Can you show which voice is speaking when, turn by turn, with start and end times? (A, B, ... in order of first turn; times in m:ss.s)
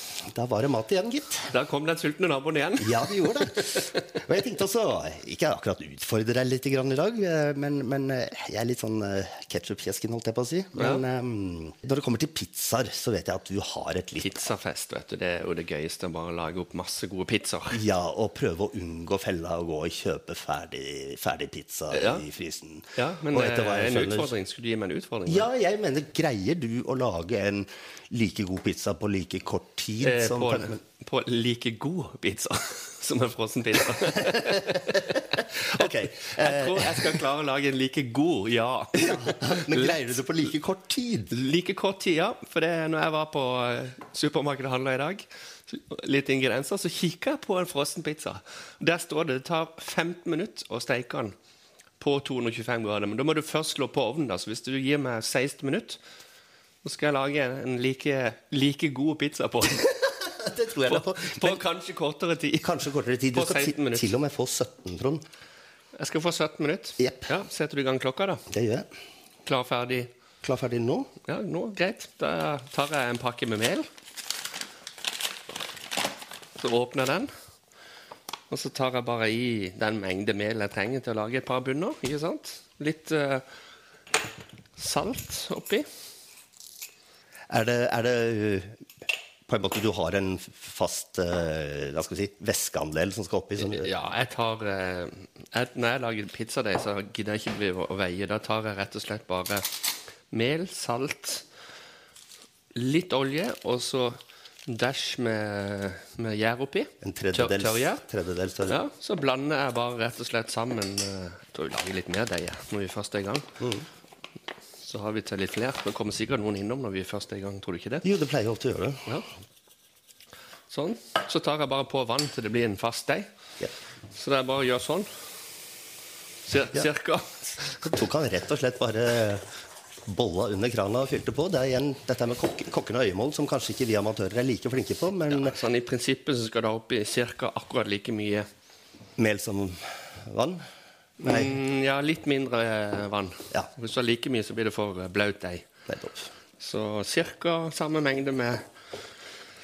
0:00.2-0:01.5 A
0:01.5-0:04.1 B
0:02.8-0:14.3 A
0:10.8-0:11.0 B
0:14.2-0:17.8 B
0:17.7-0:24.3 A
0:21.9-0:22.2 B
0:23.0-0:25.5 B
0:25.3-0:30.8 A
0:30.0-0:40.0 B
0:34.0-0:37.2 A
0:39.0-0:41.3 A
0:41.3-0:51.4 B
0:52.0-0:56.0 B
0:56.8-0:59.9 B
1:00.3-1:01.6 A
1:00.9-1:04.1 B
1:02.6-1:05.2 A
1:06.0-1:08.5 B
1:07.0-1:07.3 A
1:08.5-1:08.9 A
1:09.5-1:10.1 B
1:10.4-1:11.1 A
1:11.2-1:13.9 B
1:16.6-1:17.3 B
1:18.5-1:23.4 B
1:24.8-1:25.9 B
1:27.5-1:28.8 A
1:29.5-1:33.9 A
1:33.6-1:39.7 B
1:40.3-1:41.4 B
1:42.8-1:48.0 B
1:47.0-1:48.8 A
1:48.7-1:53.6 B
1:53.6-1:53.9 A
1:54.8-1:58.1 B
1:58.0-1:59.1 A
2:00.7-2:03.3 B
2:04.1-2:05.1 B
2:06.5-2:07.8 B
2:07.8-2:09.5 A
2:10.1-2:15.6 A
2:15.3-2:18.5 B
2:19.2-2:20.6 A
2:21.2-2:21.6 A
2:21.2-2:25.7 B
2:25.9-2:26.3 A
2:26.6-2:28.6 B